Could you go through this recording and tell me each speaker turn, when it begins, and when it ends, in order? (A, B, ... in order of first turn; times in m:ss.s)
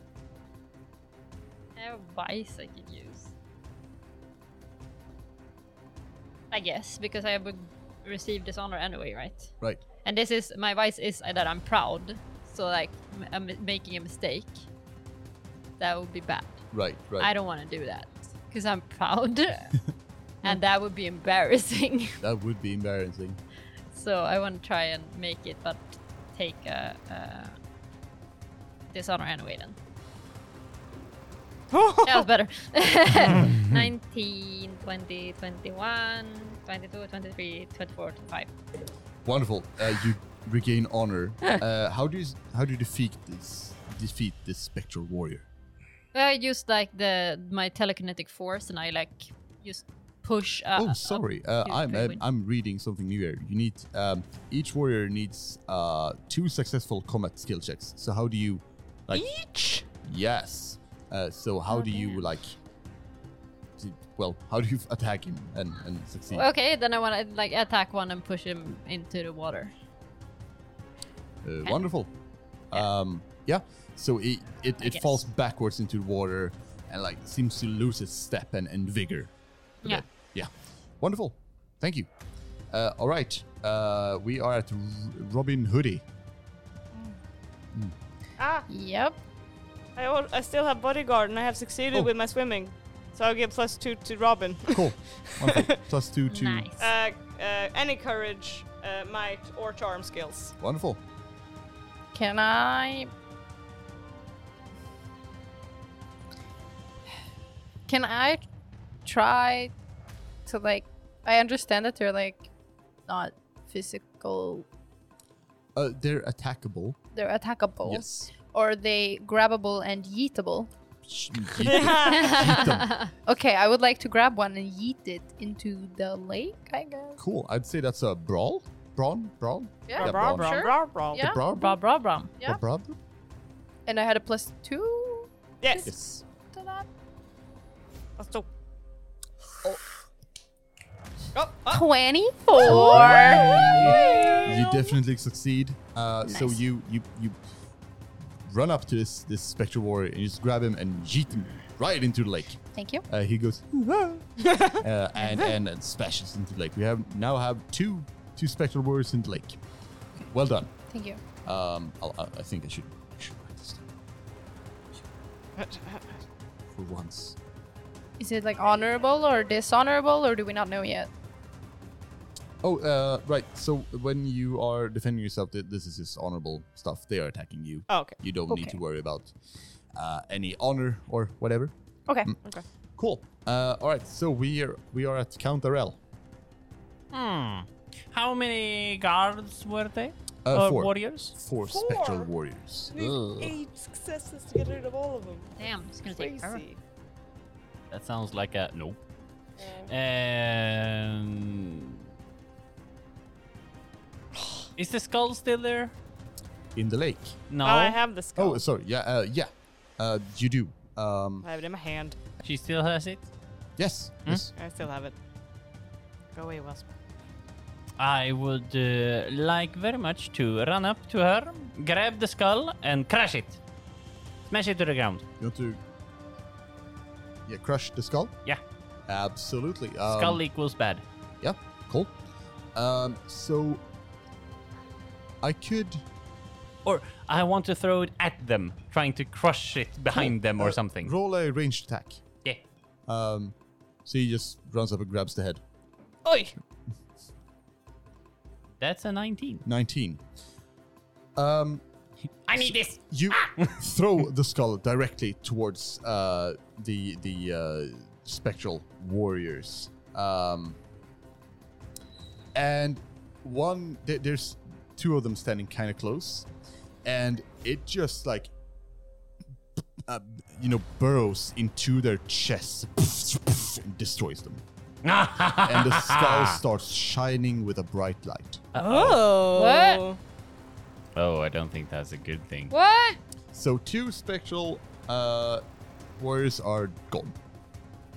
0:01.8-0:03.3 A
0:06.5-0:14.7 A
0:15.8-0:16.6 A
0:16.7-0:17.3 B
0:17.2-0:19.8 A
0:20.4-0:22.2 A
0:22.2-0:23.4 B
0:23.9-0:27.6 A
0:28.9-0:29.8 A
0:31.7-0:32.3 C
0:32.0-0:38.5 A
0:39.2-0:45.5 B
0:46.1-0:52.2 A
0:50.7-0:59.2 B
0:59.1-0:59.8 C
1:00.0-1:02.6 B
1:01.7-1:02.2 A
1:03.8-1:06.5 B
1:06.3-1:09.7 A
1:11.4-1:12.1 B
1:12.7-1:22.1 B
1:14.8-1:15.2 A
1:22.7-1:26.0 B
1:28.4-1:28.7 C
1:28.7-1:29.2 D
1:30.0-1:34.9 C
1:34.7-1:36.7 B
1:36.3-1:36.9 A
1:36.8-1:40.5 C
1:40.6-1:41.0 B
1:42.1-1:43.1 D
1:47.9-1:48.4 D
1:49.0-1:49.7 D
1:50.4-1:52.5 D
1:53.1-1:54.7 D
1:55.7-1:57.0 B
1:57.1-2:00.7 D
1:57.8-1:58.3 B
2:01.0-2:03.0 B
2:01.6-2:02.5 C
2:02.1-2:03.1 A
2:03.2-2:07.2 D
2:07.2-2:10.6 B
2:09.9-2:11.4 D
2:10.0-2:11.3 C
2:11.1-2:11.8 B
2:11.4-2:12.3 A
2:12.4-2:13.0 B
2:13.8-2:16.9 D
2:15.6-2:15.9 C
2:15.8-2:16.2 B
2:18.2-2:18.5 C
2:21.3-2:21.8 C
2:21.7-2:24.5 D
2:22.6-2:27.4 B
2:22.6-2:24.7 C
2:26.2-2:26.6 D
2:28.4-2:39.6 B
2:32.7-2:33.0 D
2:34.4-2:34.8 C
2:40.3-2:40.7 B
2:40.9-2:41.2 D
2:41.4-2:43.8 B
2:45.6-2:46.1 C
2:46.7-2:47.4 B
2:48.2-2:51.1 D
2:52.6-2:59.3 B
2:57.9-2:58.2 C
2:58.5-2:58.8 D
2:59.9-3:02.4 B
3:03.0-3:06.0 B
3:07.1-3:11.3 E
3:10.4-3:12.9 B
3:11.6-3:12.3 C
3:12.9-3:16.8 C
3:12.9-3:13.5 E
3:15.6-3:16.7 A
3:17.9-3:19.0 E
3:19.6-3:19.9 C
3:19.9-3:22.0 E
3:24.3-3:24.7 C
3:24.8-3:25.9 E
3:26.8-3:27.4 B
3:27.5-3:28.0 E
3:27.6-3:28.6 C
3:28.4-3:31.5 B
3:31.4-3:32.2 C
3:32.4-3:33.2 E
3:33.8-3:34.5 B
3:34.6-3:35.1 C
3:36.3-3:36.8 C
3:38.0-3:43.6 E
3:44.5-3:45.2 E
3:45.4-3:45.8 B
3:47.5-3:48.4 B
3:49.1-3:50.4 B
3:50.1-3:51.0 E
3:51.4-3:52.1 B
3:52.7-3:53.8 B
3:55.4-3:56.0 B
3:56.8-4:01.1 E
4:00.1-4:02.2 B
4:03.1-4:05.6 B
4:06.2-4:06.5 C
4:08.8-4:09.6 E
4:09.6-4:10.2 B
4:11.4-4:11.8 B
4:12.5-4:13.8 E
4:13.1-4:20.8 B
4:22.5-4:26.5 B
4:27.0-4:28.5 B
4:30.0-4:34.6 B
4:35.0-4:36.6 E
4:35.6-4:38.6 B
4:38.7-4:39.2 E
4:38.8-4:40.2 C
4:39.5-4:40.0 A
4:41.1-4:42.7 E
4:42.7-4:43.2 A
4:43.5-4:45.6 B
4:46.2-4:47.4 B